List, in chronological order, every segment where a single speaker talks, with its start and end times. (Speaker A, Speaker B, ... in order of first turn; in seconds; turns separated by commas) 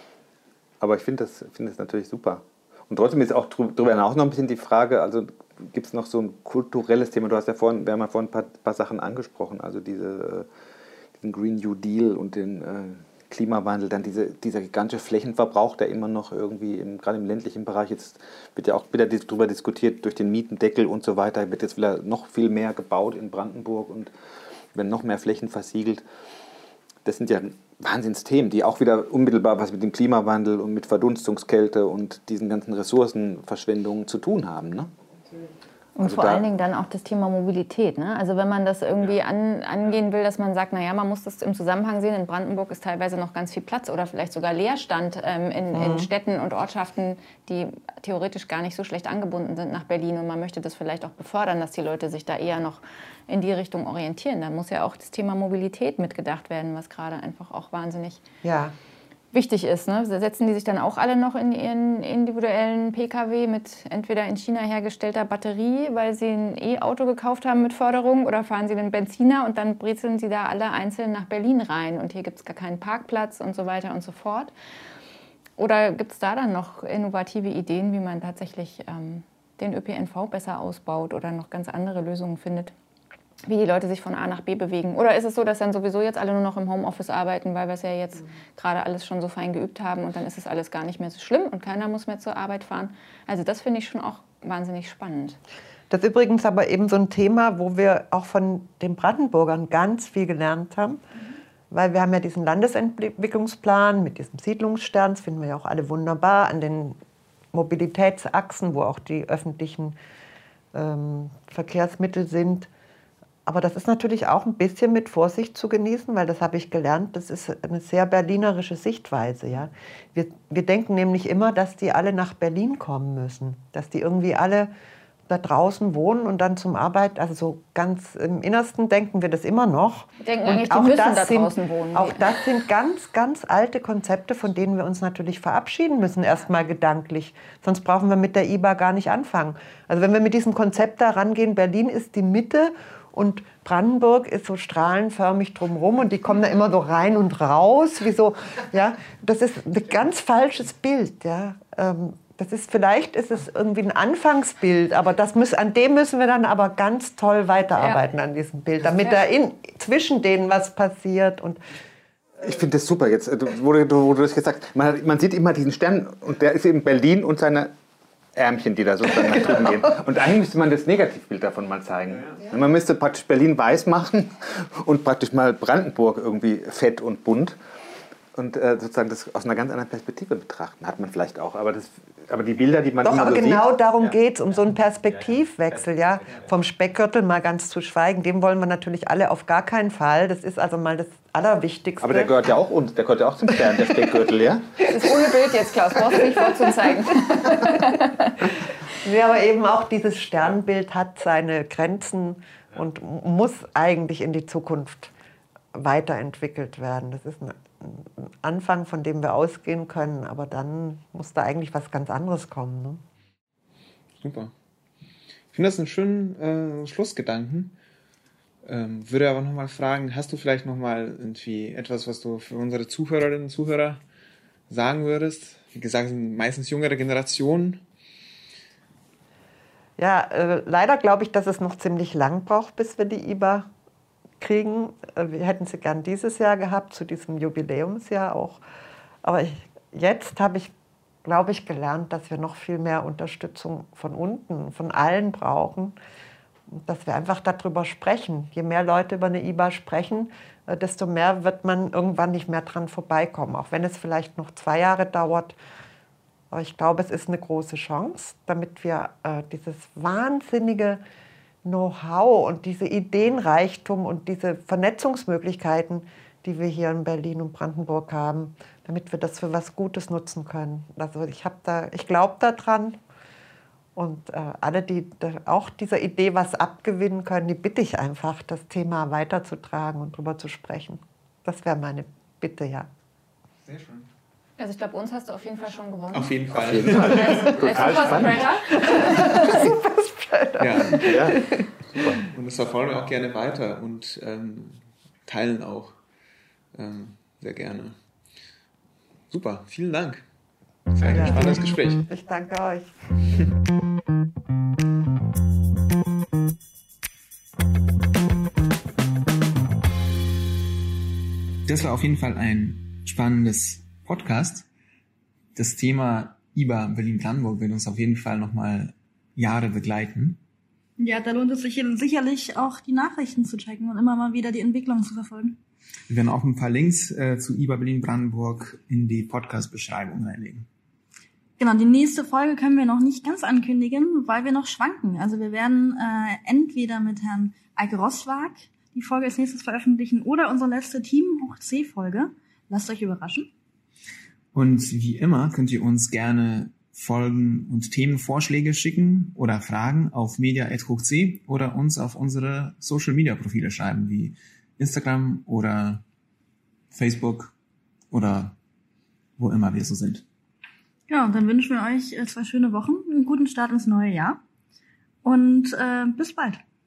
Speaker A: 0.8-10.5, Speaker A: 11.2-24.1, Speaker A: 24.7-26.0, Speaker A: 27.0-34.9, Speaker B: 36.0-58.2, Speaker A: 36.0-36.4, Speaker C: 45.7-46.1, Speaker C: 58.4-58.7, Speaker B: 59.3-74.5, Speaker B: 75.6-82.7, Speaker B: 83.4-95.4, Speaker C: 95.9-101.0, Speaker C: 101.7-107.0, Speaker C: 107.5-110.0, Speaker C: 110.7-112.7, Speaker C: 113.5-124.7, Speaker C: 125.3-161.6, Speaker B: 130.2-132.2, Speaker A: 162.4-167.7, Speaker A: 168.3-177.6, Speaker A: 178.3-183.6, Speaker C: 183.0-192.3, Speaker A: 192.0-195.1, Speaker B: 194.9-198.4, Speaker C: 197.2-198.0, Speaker C: 198.9-205.1, Speaker C: 205.7-213.0, Speaker D: 214.2-214.5, Speaker D: 215.5-217.8, Speaker D: 218.6-224.0, Speaker D: 224.7-227.8, Speaker C: 230.0-233.7, Speaker C: 234.4-238.6, Speaker C: 239.2-240.7, Speaker C: 241.2-245.9, Speaker C: 246.7-255.5, Speaker C: 256.5-261.0, Speaker C: 261.6-273.0, Speaker C: 273.9-282.9, Speaker D: 283.6-284.1, Speaker B: 284.6-289.7, Speaker D: 286.1-288.2, Speaker A: 286.5-288.5, Speaker C: 288.7-291.6, Speaker D: 290.6-291.3, Speaker A: 291.0-291.4, Speaker D: 292.1-296.0, Speaker D: 296.7-297.9, Speaker D: 299.3-300.2, Speaker D: 300.9-302.0, Speaker C: 301.1-302.9, Speaker D: 311.7-314.7, Speaker D: 315.5-320.4, Speaker E: 321.0-325.6, Speaker D: 326.1-330.7, Speaker E: 331.6-343.5, Speaker D: 344.5-356.0, Speaker D: 356.9-357.5, Speaker D: 358.1-358.6, Speaker D: 359.4-360.2, Speaker E: 361.1-364.4, Speaker E: 365.2-366.6